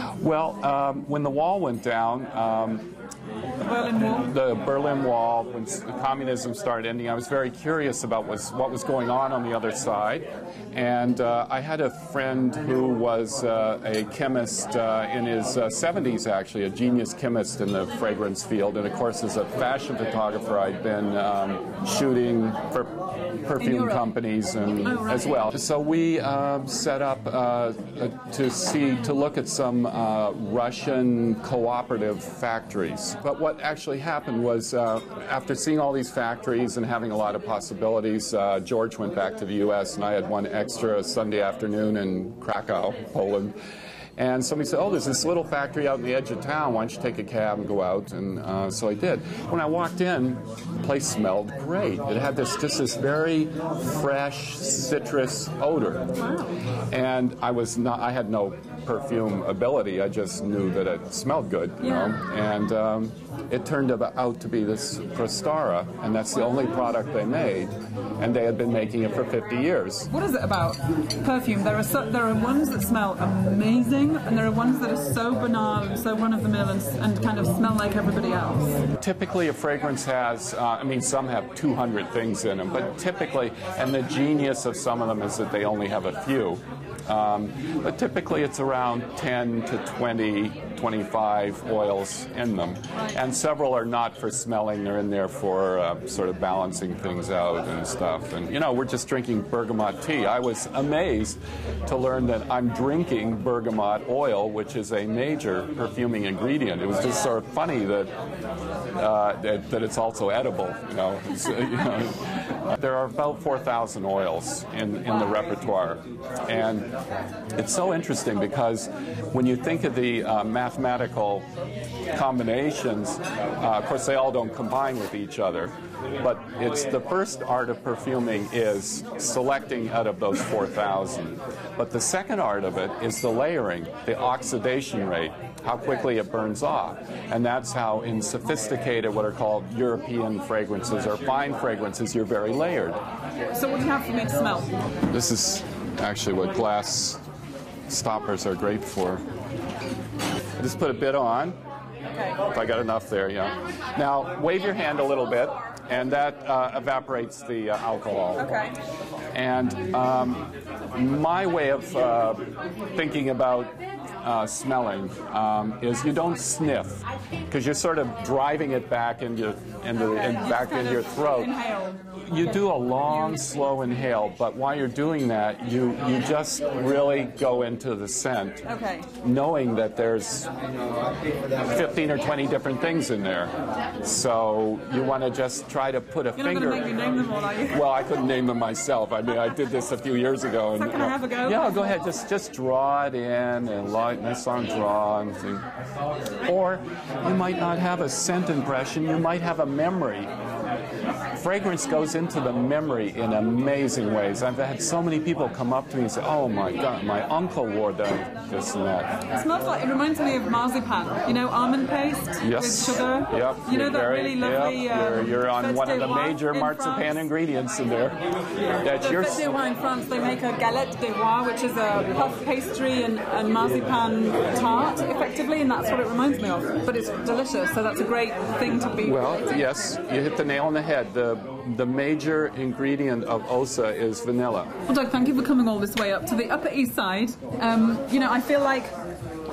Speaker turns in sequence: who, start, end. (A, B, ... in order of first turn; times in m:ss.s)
0:00.2-0:02.9 A
0:03.6-0:04.3 B
0:04.1-0:22.9 A
0:23.4-0:43.5 A
0:23.6-0:24.0 B
0:24.8-0:25.5 B
0:44.2-0:56.1 A
0:56.2-0:56.6 B
0:56.9-1:10.1 A
1:01.8-1:02.2 B
1:10.1-1:18.8 B
1:19.0-1:48.1 A
1:49.0-1:56.9 A
1:57.6-2:01.4 A
2:02.1-2:23.0 A
2:23.5-2:24.7 B
2:25.1-2:27.2 A
2:27.9-2:29.2 A
2:30.6-2:31.6 A
2:32.5-2:38.5 A
2:38.4-2:38.8 B
2:39.3-2:42.4 A
2:42.9-2:51.5 A
2:50.0-2:52.2 B
2:52.3-2:58.6 A
2:58.6-2:59.1 B
2:59.2-3:00.5 A
3:01.6-3:06.9 A
3:06.4-3:07.8 B
3:07.7-3:15.6 A
3:10.7-3:12.0 B
3:16.4-3:20.3 A
3:21.4-3:29.2 A
3:29.3-3:37.2 B
3:32.4-3:38.2 A
3:38.8-3:39.4 A
3:38.9-3:49.6 B
3:49.0-3:54.7 A
3:54.9-3:58.9 B